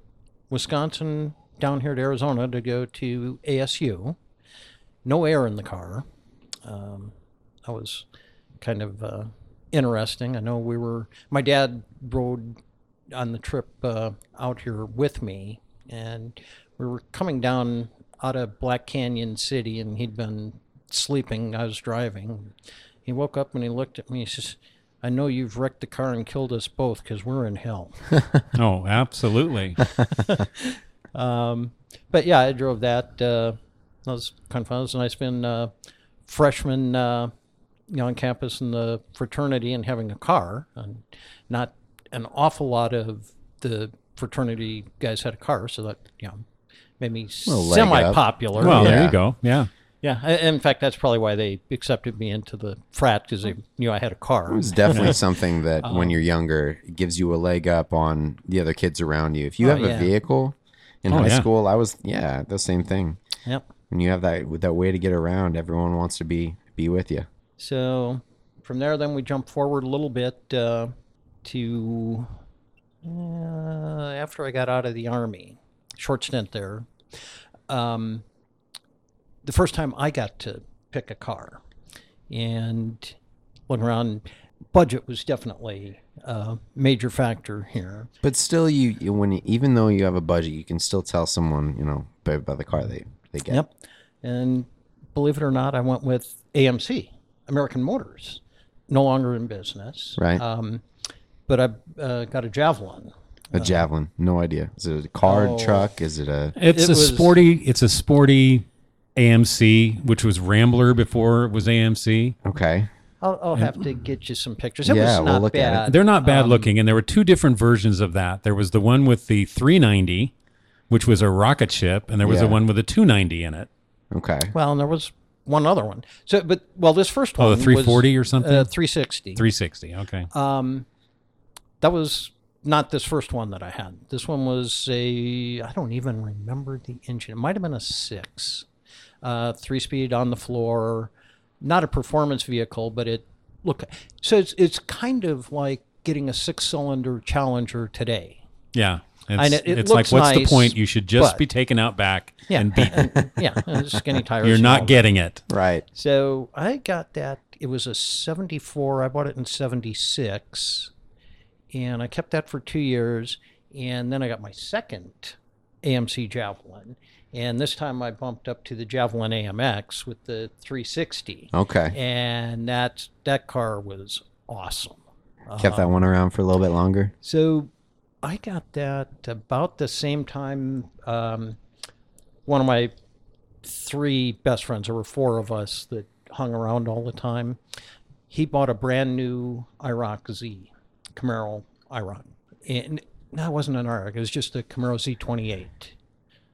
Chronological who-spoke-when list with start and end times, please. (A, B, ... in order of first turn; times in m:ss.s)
0:00.5-0:04.2 A
0:05.0-0:06.0 A
0:06.6-0:07.1 A
0:07.7-0:08.1 A
0:08.6-0:12.6 A
0:13.1-0:22.5 A
0:23.1-0:28.1 A
0:28.5-0:29.8 B
0:30.1-0:35.7 A
0:36.3-0:37.3 A
0:37.9-0:46.4 A
0:47.0-0:49.1 A
0:47.5-0:49.2 C
0:48.6-0:49.7 B
0:50.0-0:55.2 A
0:54.5-1:03.2 C
0:55.8-0:56.1 A
0:59.6-1:00.1 A
1:01.1-1:01.5 B
1:03.9-1:07.3 C
1:07.6-1:10.9 A
1:11.4-1:12.3 A
1:13.0-1:16.9 A
1:17.7-1:18.2 A
1:19.4-1:21.6 A
1:22.3-1:23.2 A
1:23.7-1:28.1 A
1:28.2-1:33.6 C
1:34.2-1:40.8 A
1:40.2-1:40.4 C
1:41.5-1:43.8 A
1:43.5-1:46.6 C
1:45.2-1:45.9 A
1:46.6-1:52.4 B
1:46.7-1:47.4 A
1:52.4-1:52.9 C
1:53.2-1:56.7 A
1:54.8-1:55.8 C
1:55.9-2:00.3 B
2:00.9-2:03.7 B
2:02.2-2:02.6 C
2:04.1-2:04.5 C
2:04.5-2:09.4 A
2:07.4-2:08.7 B
2:09.4-2:10.3 B
2:10.3-2:10.9 A
2:11.8-2:18.7 A
2:19.2-2:28.4 A
2:28.7-2:33.3 B
2:29.4-2:31.4 A
2:32.5-2:35.1 A
2:34.4-2:35.4 B
2:35.5-2:35.8 C
2:35.9-2:40.9 A
2:41.7-2:55.9 A
2:51.5-2:52.0 C
2:55.6-2:57.1 C
2:57.2-2:57.7 A
2:58.2-3:01.6 A
3:02.5-3:02.9 A
3:03.6-3:07.6 A
3:08.3-3:15.9 A